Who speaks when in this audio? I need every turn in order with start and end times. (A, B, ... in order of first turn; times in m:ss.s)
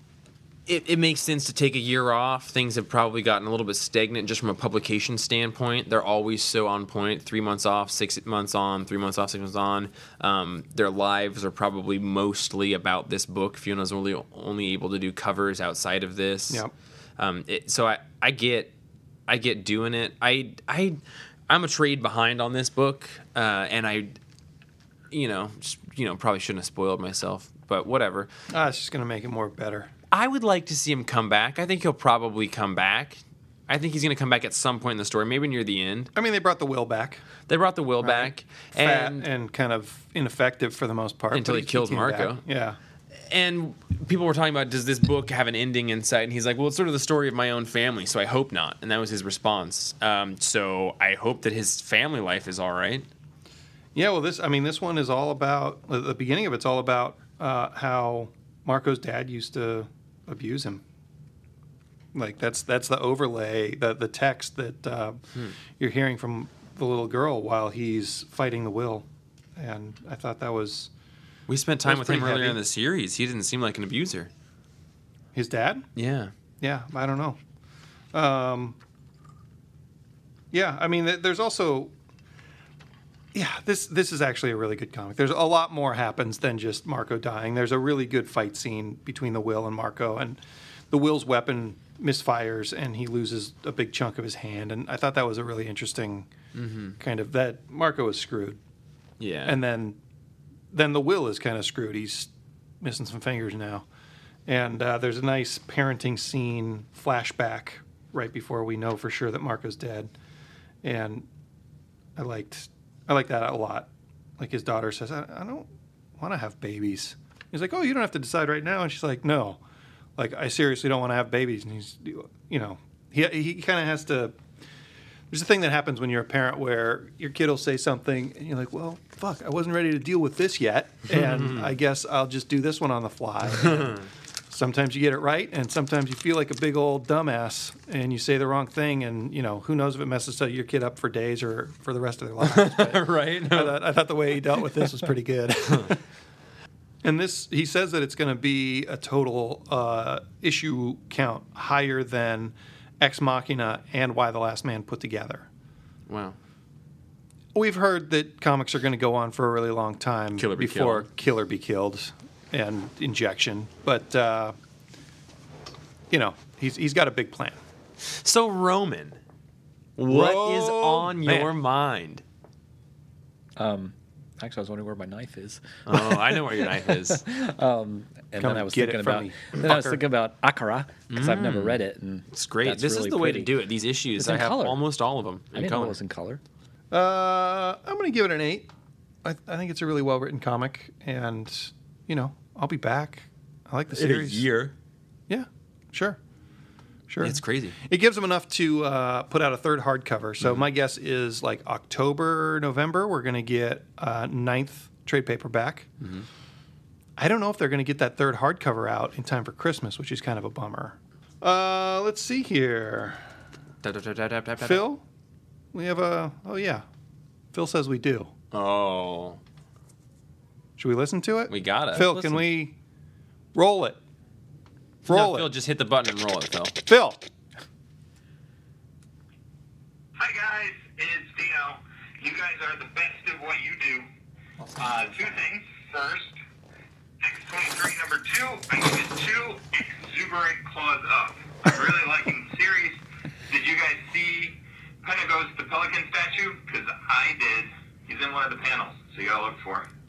0:00.7-0:16.6 A
0:17.2-0:18.7 A
0:19.3-0:24.2 A
0:25.1-0:28.3 A
0:28.5-0:29.9 B
0:30.1-0:36.1 A
0:36.1-0:37.2 B
0:37.5-0:39.3 A
0:38.0-0:42.8 B
0:41.3-0:42.4 A
0:43.3-0:53.1 A
0:53.9-1:00.8 B
1:02.1-1:10.9 B
1:11.5-1:14.3 A
1:11.8-1:12.6 B
1:15.3-1:15.8 B
1:16.0-1:16.3 A
1:16.6-1:17.4 B
1:18.1-1:18.8 B
1:20.5-1:21.9 B
1:23.3-1:30.4 B
1:30.9-1:36.3 B
1:36.5-1:37.0 A
1:37.0-1:38.6 B
1:39.2-1:39.6 A
1:39.4-1:40.0 B
1:40.7-1:42.3 B
1:42.8-1:43.8 B
1:44.5-1:50.1 B
1:50.8-1:51.3 B
1:52.2-1:55.6 B
1:56.2-1:59.6 B
2:00.2-2:04.3 B
2:05.3-2:26.0 B
2:11.1-2:11.7 A
2:13.6-2:14.0 A
2:22.4-2:23.8 A
2:27.0-2:35.5 B
2:36.1-2:36.4 A
2:37.5-2:44.5 B
2:40.4-2:41.1 A
2:46.1-2:47.6 B
2:48.0-2:49.2 A
2:50.0-2:52.2 A
2:50.1-2:51.5 B
2:53.6-3:03.5 C
2:55.8-2:57.2 A
2:58.4-3:00.0 B
3:01.1-3:01.8 A
3:02.3-3:06.0 A
3:04.2-3:04.8 C
3:05.5-3:06.4 C
3:06.9-3:08.7 B
3:09.2-3:14.4 B
3:13.9-3:14.7 A
3:15.3-3:16.2 B
3:17.1-3:25.9 B
3:17.2-3:17.8 A
3:26.0-3:26.3 A
3:27.2-3:33.2 B
3:33.8-3:34.8 A
3:34.6-3:35.0 B
3:35.7-3:36.8 B
3:37.5-3:38.3 B
3:38.5-3:39.4 A
3:40.8-3:42.7 B
3:41.5-3:42.0 A
3:41.9-3:42.5 C
3:43.5-3:44.0 B
3:45.1-3:45.5 B
3:45.1-3:46.7 A
3:46.8-3:47.2 B
3:50.2-3:54.1 D
3:54.6-3:55.1 B
3:54.8-3:56.3 D
3:57.2-4:09.9 D